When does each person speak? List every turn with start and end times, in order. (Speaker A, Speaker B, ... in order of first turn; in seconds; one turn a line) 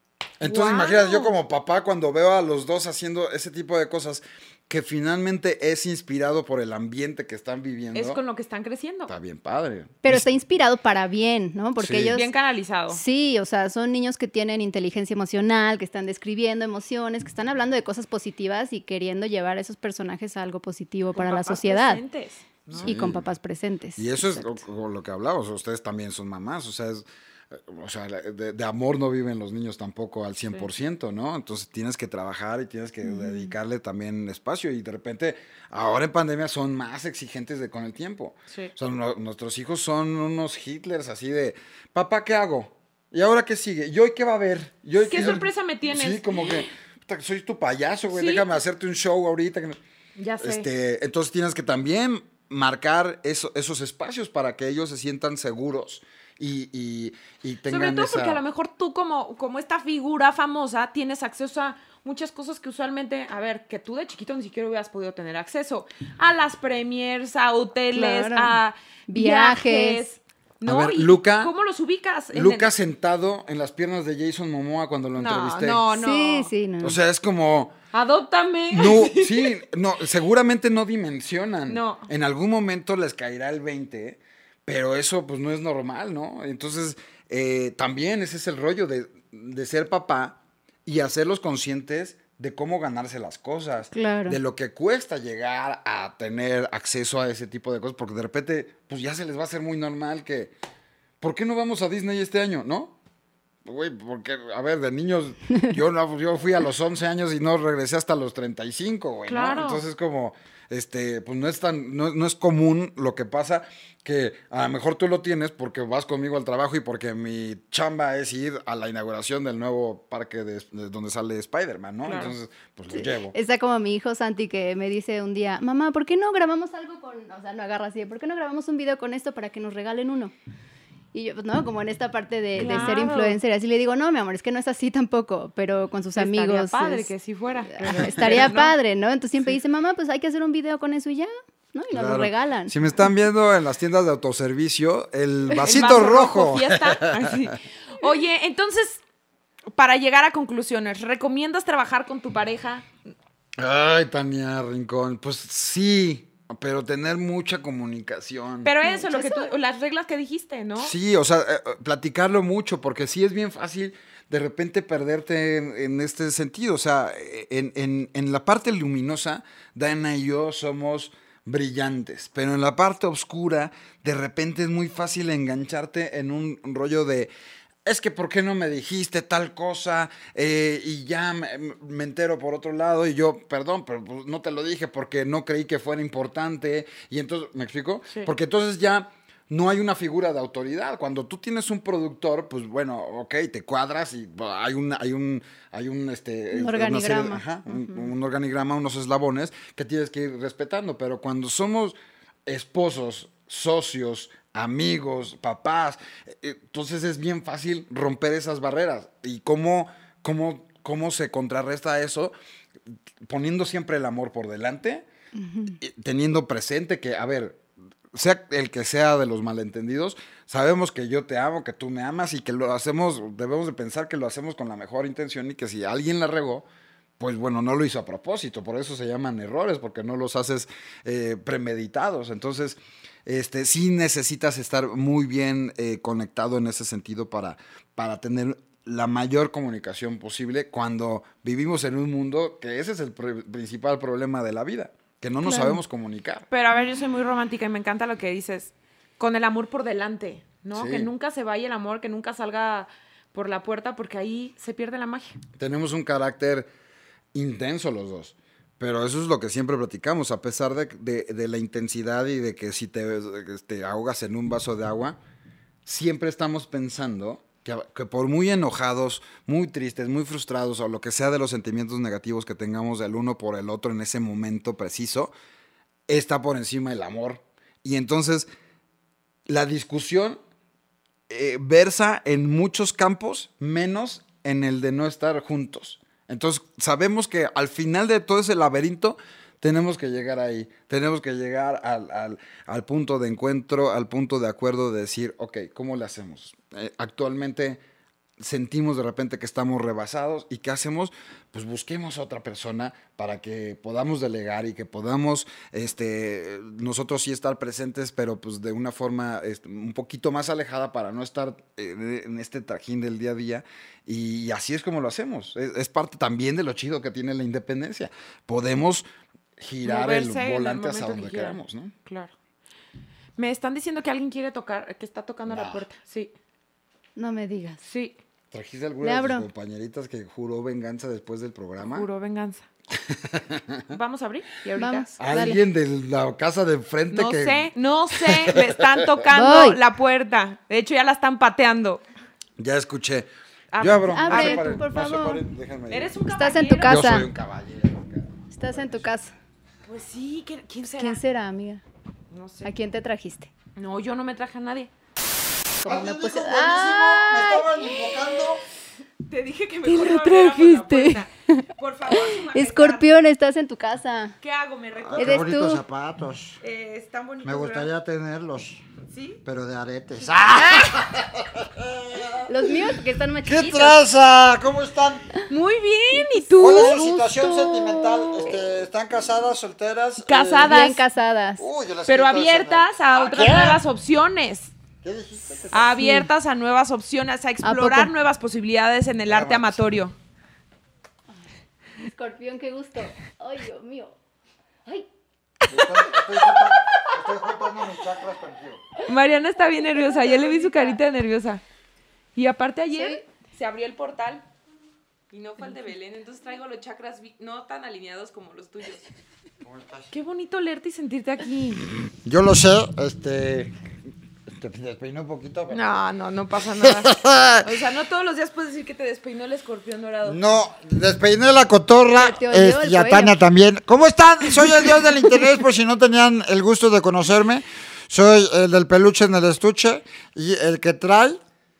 Speaker A: 0.4-8.2
Speaker B: 0.4-1.3
Speaker B: 7.9-9.1
Speaker A: 9.1-10.2
Speaker C: 10.0-12.3
Speaker A: 11.8-12.2
Speaker B: 12.1-13.0
Speaker C: 12.9-22.0
Speaker B: 21.1-22.9
Speaker A: 22.7-23.2
Speaker C: 22.7-24.6
Speaker A: 24.0-49.8
Speaker C: 33.0-33.5
Speaker B: 45.0-46.7
Speaker B: 48.1-48.4
Speaker B: 50.2-50.6
Speaker A: 50.4-58.4
Speaker B: 57.7-72.7
Speaker C: 67.9-68.6
Speaker C: 69.1-70.0
Speaker A: 70.6-71.5
Speaker A: 72.3-75.8
Speaker B: 75.2-76.5
Speaker C: 75.9-77.0
Speaker A: 76.8-77.7
Speaker B: 77.9-79.5
Speaker A: 78.7-100.5
Speaker B: 81.7-82.1
Speaker C: 93.9-94.4
Speaker A: 101.2-102.9
Speaker A: 103.6-123.3
Speaker B: 109.3-109.8
Speaker B: 122.0-122.3
Speaker C: 122.9-130.3
Speaker C: 131.1-137.1
Speaker B: 132.6-133.4
Speaker A: 132.6-132.9
Speaker B: 136.2-138.7
Speaker C: 137.7-142.7
Speaker A: 141.9-147.5
Speaker B: 145.6-149.0
Speaker B: 149.7-152.9
Speaker A: 153.6-158.7
Speaker B: 158.6-160.9
Speaker C: 158.8-159.5
Speaker A: 160.8-177.3
Speaker A: 177.8-212.3
Speaker C: 196.5-197.9
Speaker A: 213.2-215.0
Speaker C: 215.3-215.8
Speaker A: 215.8-217.6
Speaker A: 218.1-226.7
Speaker A: 227.2-246.4
Speaker C: 245.4-245.8
Speaker B: 246.5-255.4
Speaker A: 250.7-251.1
Speaker A: 255.6-256.7
Speaker A: 257.3-265.2
Speaker A: 265.9-275.3
Speaker A: 276.1-278.5
Speaker A: 279.5-280.4
Speaker A: 281.3-297.8
Speaker A: 298.4-319.1
Speaker A: 319.6-321.9
Speaker B: 319.8-322.3
Speaker B: 323.4-326.3
Speaker A: 325.5-325.8
Speaker C: 327.2-327.8
Speaker B: 327.8-328.1
Speaker A: 328.5-332.1
Speaker C: 329.0-329.5
Speaker B: 331.8-332.6
Speaker A: 332.9-334.0
Speaker B: 333.9-335.1
Speaker C: 334.8-335.6
Speaker A: 335.2-339.1
Speaker B: 337.1-342.0
Speaker C: 339.3-339.8
Speaker A: 342.6-346.1
Speaker B: 343.7-344.6
Speaker C: 344.1-345.4
Speaker B: 345.9-347.2
Speaker C: 346.3-347.3
Speaker A: 346.9-349.1
Speaker C: 348.5-349.3
Speaker B: 349.9-351.2
Speaker C: 350.9-351.8
Speaker B: 352.3-352.7
Speaker C: 352.6-353.5
Speaker B: 353.8-354.9
Speaker C: 355.8-357.6
Speaker D: 355.8-358.6
Speaker B: 359.2-363.1
Speaker C: 359.8-364.3
Speaker B: 364.4-365.5
Speaker D: 365.0-366.6
Speaker C: 365.2-365.8
Speaker B: 366.6-367.9
Speaker D: 367.4-368.8
Speaker B: 369.1-369.4
Speaker D: 369.4-372.5
Speaker B: 370.3-371.0
Speaker C: 372.5-374.0
Speaker D: 373.4-375.3
Speaker B: 375.5-377.1
Speaker D: 376.6-380.8
Speaker C: 376.7-378.5
Speaker B: 380.2-381.0
Speaker C: 380.6-381.6
Speaker D: 381.6-383.8
Speaker B: 382.1-384.7
Speaker D: 385.0-385.9
Speaker B: 385.7-390.1
Speaker C: 385.9-386.3
Speaker C: 387.6-388.1
Speaker D: 389.3-389.8
Speaker C: 392.0-394.1
Speaker D: 395.7-398.8
Speaker B: 399.0-401.6
Speaker C: 400.1-400.9
Speaker B: 402.4-404.4
Speaker C: 402.9-403.2
Speaker B: 405.3-409.1
Speaker D: 409.6-410.1
Speaker B: 410.1-411.9
Speaker D: 412.1-413.7
Speaker D: 414.5-415.8
Speaker B: 415.7-420.4
Speaker D: 416.8-417.7
Speaker D: 420.2-431.4
Speaker C: 422.2-423.3